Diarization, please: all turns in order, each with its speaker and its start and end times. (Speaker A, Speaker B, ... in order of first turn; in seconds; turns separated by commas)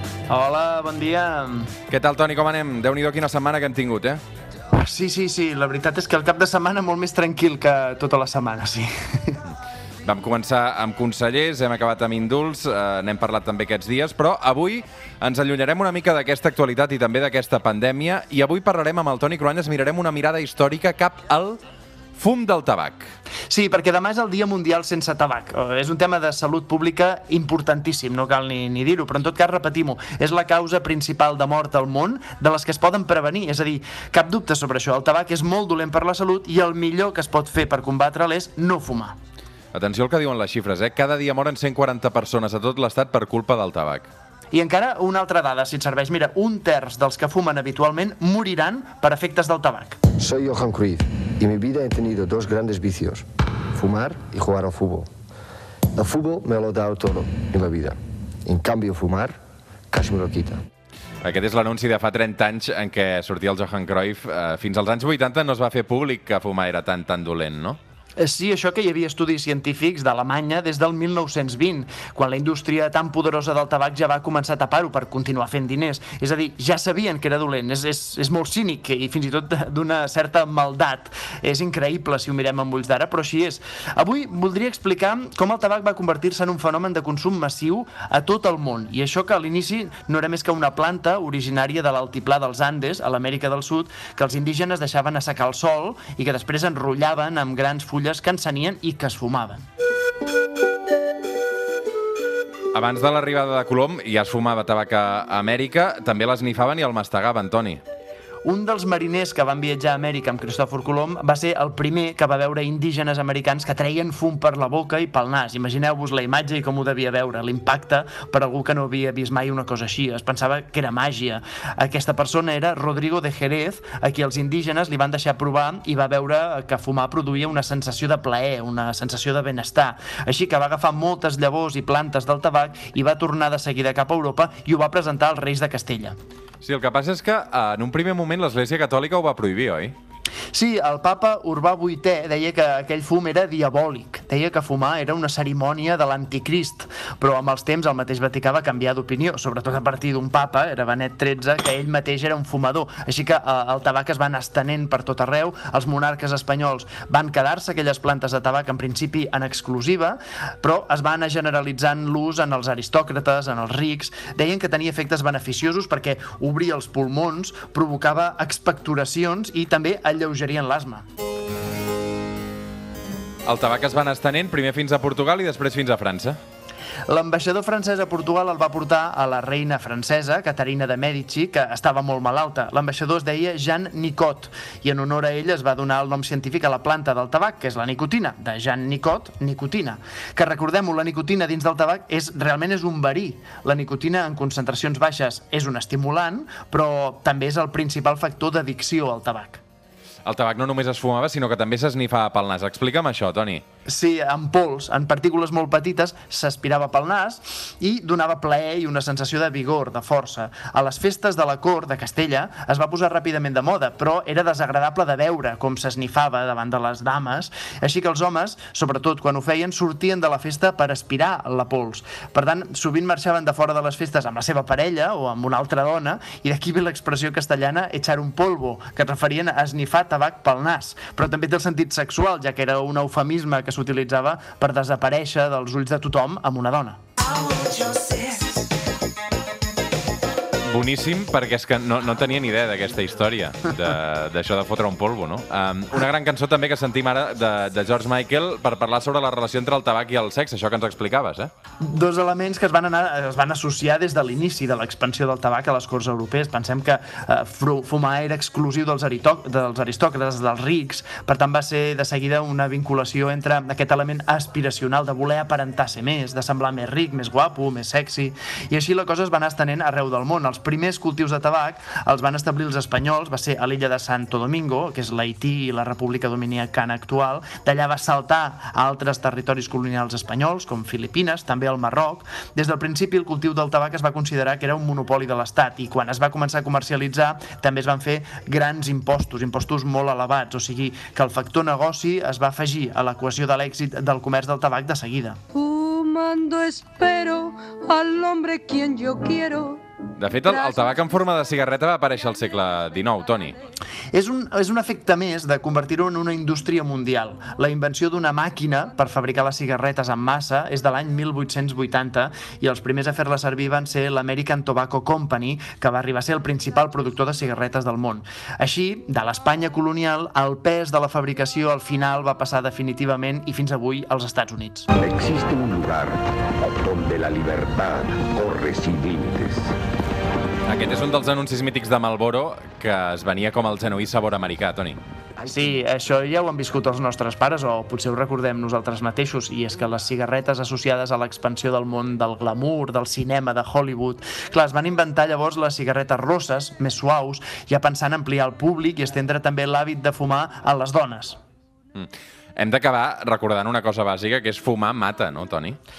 Speaker A: 0.3-1.7, Speaker B: 1.9-4.2, Speaker A: 4.7-9.4, Speaker B: 10.0-21.6, Speaker B: 22.2-23.1, Speaker A: 23.5-39.2, Speaker B: 39.7-44.1, Speaker A: 44.5-50.0, Speaker C: 50.2-55.1, Speaker C: 56.0-59.4, Speaker C: 59.9-60.6, Speaker B: 61.2-67.8, Speaker A: 68.2-99.6, Speaker B: 102.7-107.8, Speaker A: 108.5-136.2, Speaker B: 136.6-139.9, Speaker A: 140.5-171.1, Speaker B: 173.5-176.4, Speaker A: 177.1-199.6, Speaker B: 200.2-203.6, Speaker A: 203.9-237.0, Speaker D: 237.5-238.5, Speaker B: 240.7-251.5, Speaker A: 251.8-295.4, Speaker D: 295.5-299.8, Speaker B: 300.2-303.6, Speaker D: 300.5-300.9, Speaker A: 304.1-324.9, Speaker E: 324.9-329.7, Speaker B: 330.7-335.0, Speaker A: 335.4-351.4, Speaker B: 351.9-355.8